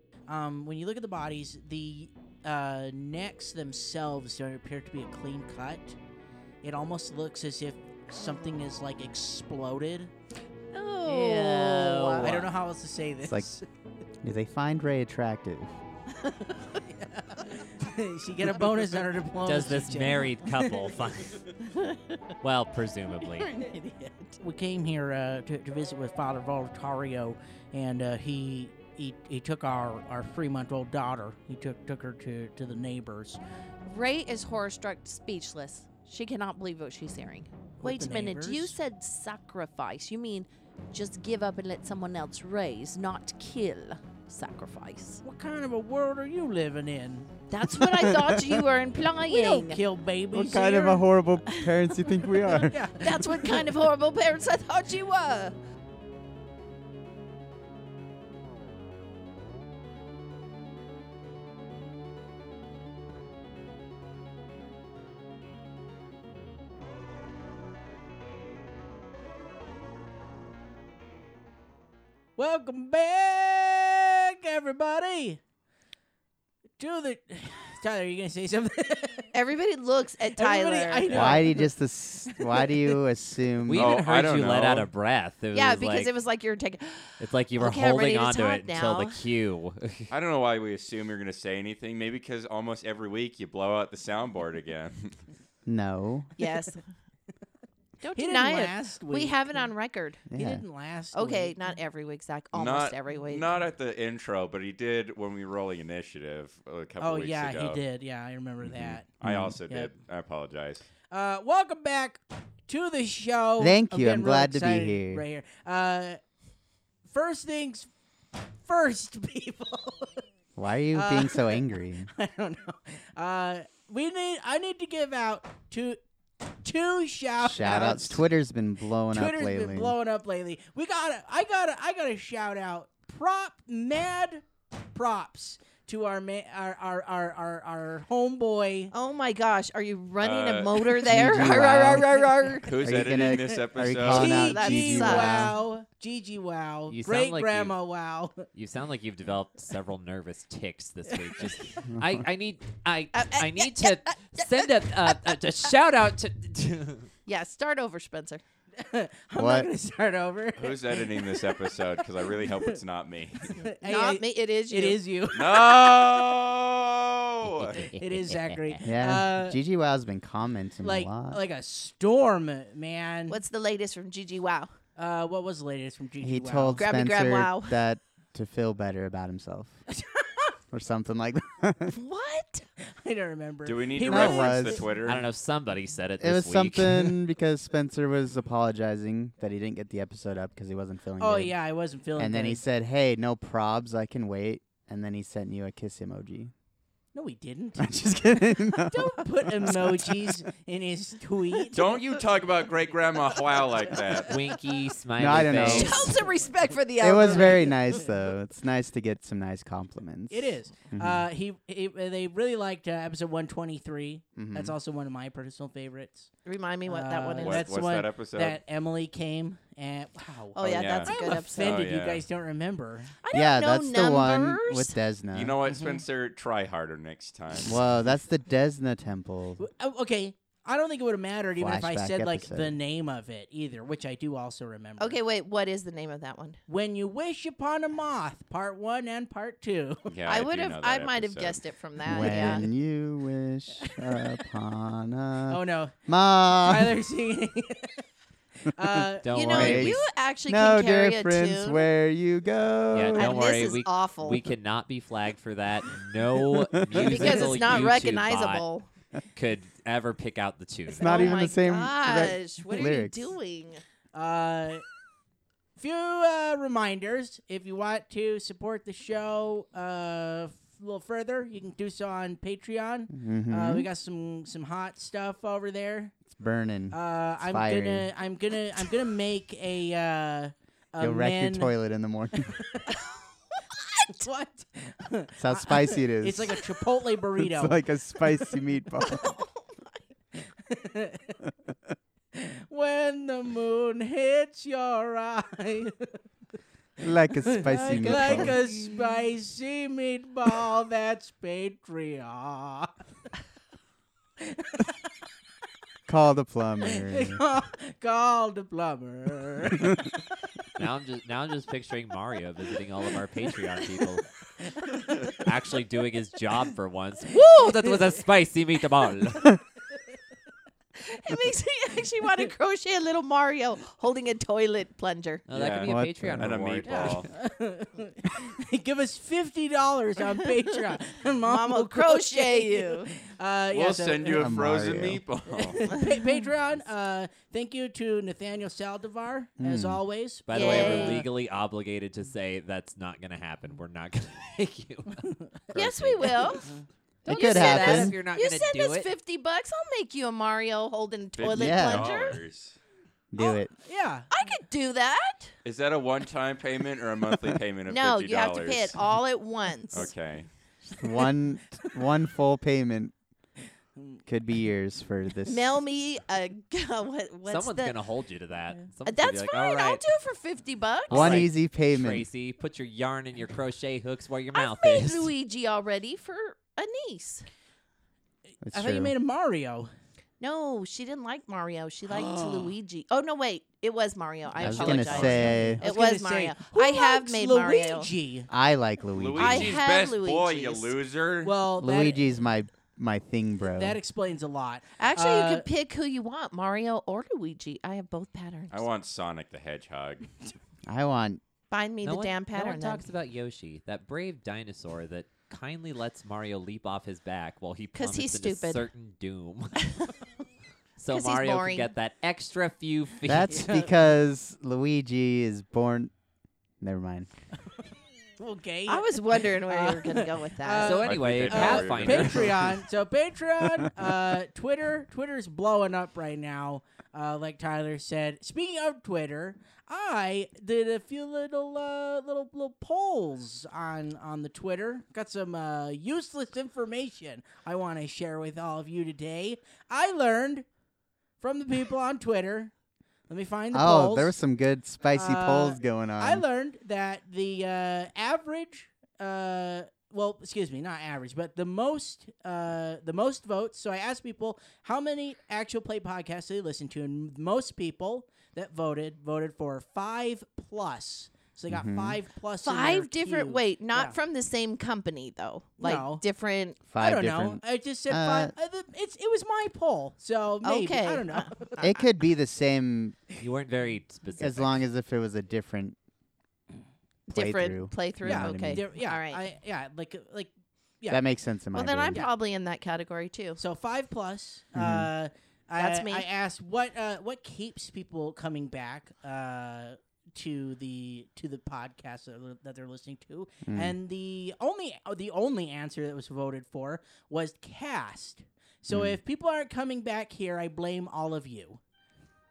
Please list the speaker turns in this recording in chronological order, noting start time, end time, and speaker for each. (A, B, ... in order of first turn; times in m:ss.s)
0:00.3-0:06.0 A
0:06.6-0:10.1 A
0:10.7-0:12.5 B
0:11.1-0:12.4 C
0:11.1-0:13.7 A
0:13.2-0:13.5 D
0:14.2-0:15.8 D
0:16.6-0:20.8 A
0:19.4-0:21.5 C
0:21.6-0:22.2 B
0:22.4-0:23.5 C
0:23.5-0:24.3 B
0:24.4-0:33.4 A
0:33.9-0:45.2 B
0:37.8-0:38.8 A
0:45.2-0:47.3 A
0:47.5-0:49.8 B
0:47.7-0:48.7 D
0:49.3-0:51.1 A
0:50.3-0:52.9 D
0:52.4-0:53.7 A
0:53.0-0:55.6 B
1:12.4-1:15.4 A
1:16.8-1:19.3 A
1:19.3-1:21.4 B
1:20.4-1:21.7 A
1:21.1-1:24.0 D
1:22.3-1:22.9 A
1:23.7-1:26.1 C
1:23.7-1:24.9 E
1:25.5-1:29.2 B
1:27.2-1:30.1 C
1:30.1-1:35.2 E
1:35.7-1:36.3 D
1:36.4-1:36.8 B
1:36.4-1:36.7 A
1:38.0-1:40.2 B
1:38.2-1:39.7 A
1:40.3-1:40.6 D
1:40.3-1:41.6 A
1:41.1-1:43.5 B
1:42.5-1:47.8 E
1:47.0-1:49.1 A
1:49.2-1:50.9 E
1:49.2-1:49.6 D
1:51.1-1:56.2 A
1:53.6-1:55.2 D
1:57.1-1:57.9 A
1:58.6-2:00.2 A
2:00.6-2:02.1 D
2:00.9-2:06.0 A
2:06.6-2:08.3 A
2:07.4-2:10.0 D
2:09.1-2:18.9 A
2:18.9-2:22.8 B
2:20.2-2:21.1 E
2:21.0-2:22.1 D
2:22.7-2:24.5 E
2:22.8-2:25.5 D
2:23.3-2:28.5 A
2:24.3-2:25.6 B
2:26.9-2:27.8 C
2:28.5-2:37.1 C
2:31.9-2:32.2 D
2:33.2-2:34.5 B
2:37.3-2:38.4 B
2:38.8-2:41.3 A
2:39.4-2:39.7 D
2:40.6-2:43.6 E
2:43.5-2:46.4 A
2:43.8-2:45.0 B
2:45.3-2:47.9 E
2:47.4-2:48.8 C
2:48.0-2:49.6 A
2:48.8-2:51.4 D
2:50.8-2:53.4 A
2:53.3-2:54.7 B
2:55.0-2:56.9 A
2:56.2-2:59.8 D
2:56.8-2:57.8 B
2:59.9-3:00.5 A
3:00.7-3:02.0 D
3:01.9-3:02.7 B
3:02.8-3:04.9 A
3:03.6-3:05.3 E
3:04.0-3:04.8 D
3:05.0-3:07.2 C
3:06.2-3:11.6 D
3:11.2-3:12.6 A
3:12.2-3:16.5 D
3:17.1-3:18.0 A
3:17.8-3:20.4 D
3:18.6-3:22.0 A
3:21.7-3:24.4 E
3:24.3-3:26.2 C
3:25.2-3:26.1 D
3:25.6-3:27.8 B
3:27.0-3:31.2 D
3:30.3-3:36.3 A
3:34.4-3:34.8 D
3:36.4-3:37.6 B
3:36.9-3:43.1 A
3:37.4-3:38.6 E
3:40.6-3:41.9 B
3:40.8-3:42.2 E
3:43.2-3:45.0 B
3:43.3-3:45.6 D
3:45.3-3:47.8 E
3:45.7-3:46.0 A
3:47.6-3:49.6 D
3:49.6-3:55.2 A
3:51.6-3:52.8 D
3:55.0-3:56.6 B
3:56.7-4:00.1 A
4:00.1-4:01.6 E
4:00.3-4:02.7 B
4:02.0-4:07.0 D
4:05.5-4:06.0 A
4:06.6-4:08.0 A
4:08.6-4:09.5 A
4:09.2-4:10.1 C
4:09.3-4:11.8 B
4:09.5-4:13.4 D
4:12.9-4:18.6 C
4:13.1-4:14.5 B
4:16.5-4:17.4 D
4:17.0-4:18.9 B
4:19.4-4:21.4 C
4:20.9-4:23.8 B
4:20.9-4:23.3 D
4:24.1-4:24.8 A
4:25.8-4:36.1 A
4:33.1-4:33.9 D
4:36.3-4:38.1 D
4:36.9-4:41.7 A
4:41.0-4:42.6 D
4:42.6-4:43.0 A
4:43.9-4:47.8 A
4:45.4-4:46.6 D
4:47.4-4:49.4 D
4:49.0-4:50.0 B
4:50.4-4:51.4 A
4:52.3-4:56.2 A
4:57.0-4:58.6 D
4:57.4-5:02.9 A
4:58.0-4:58.3 C
4:58.1-4:58.5 B
5:04.4-5:04.9 A
5:06.1-5:07.4 D
5:06.9-5:10.0 A
5:10.8-5:14.3 C
5:15.2-5:19.6 C
5:21.0-5:25.5 B
5:25.5-5:27.2 C
5:25.5-5:27.3 E
5:25.8-5:26.9 D
5:26.9-5:34.6 A
5:31.4-5:33.1 B
5:33.7-5:36.0 E
5:34.4-5:35.2 D
5:35.5-5:41.3 A
5:39.6-5:40.0 D
5:40.5-5:46.7 C
5:40.5-5:41.3 B
5:45.2-5:45.5 A
5:45.8-5:46.7 B
5:46.5-5:46.8 A
5:47.2-5:49.1 C
5:47.3-5:48.2 D
5:47.3-5:52.4 B
5:51.4-5:52.8 E
5:51.4-5:52.1 D
5:53.3-5:53.7 D
5:53.4-5:53.6 B
5:53.8-5:54.3 A
5:54.3-5:55.5 B
5:55.6-5:59.0 E
5:57.9-6:00.1 B
5:59.9-6:00.5 E
6:00.9-6:03.1 D
6:04.3-6:05.8 D
6:05.5-6:08.0 B
6:07.5-6:10.0 C
6:09.0-6:11.5 B
6:11.1-6:15.3 C
6:11.1-6:12.3 D
6:14.6-6:17.5 B
6:18.6-6:19.9 A
6:18.6-6:19.1 D
6:20.4-6:28.1 B
6:22.1-6:22.7 E
6:24.6-6:25.8 D
6:24.6-6:25.7 E
6:25.8-6:28.5 A
6:28.5-6:29.8 D
6:29.1-6:31.5 E
6:29.4-6:30.9 B
6:31.4-6:32.2 A
6:31.8-6:34.0 D
6:33.6-6:35.6 A
6:35.0-6:38.9 B
6:38.7-6:40.3 E
6:40.9-6:41.4 D
6:41.7-6:43.1 B
6:42.0-6:50.0 C
6:48.0-6:48.8 B
6:51.0-6:53.9 C
6:51.1-6:51.9 B
6:53.2-6:56.1 D
6:56.8-6:57.3 D
6:58.4-7:20.6 A
6:58.9-7:01.0 B
7:00.8-7:02.7 C
7:01.0-7:02.8 E
7:03.6-7:03.9 D
7:21.4-7:22.7 A
7:23.3-7:24.4 A
7:23.7-7:26.4 D
7:25.1-7:44.2 A
7:41.7-7:42.2 D
7:42.6-7:46.8 B
7:45.8-7:46.2 A
7:46.9-7:48.5 D
7:47.0-7:52.0 A
7:50.6-7:52.0 B
7:51.8-7:53.2 D
7:53.4-7:54.8 C
7:54.4-7:56.0 D
7:57.3-7:59.4 B
7:57.3-7:58.9 D
7:58.2-8:01.2 A
8:01.1-8:02.3 D
8:01.7-8:03.6 B
8:03.6-8:21.8 A
8:04.8-8:05.1 D
8:05.8-8:06.3 B
8:13.7-8:14.0 D
8:18.9-8:19.2 D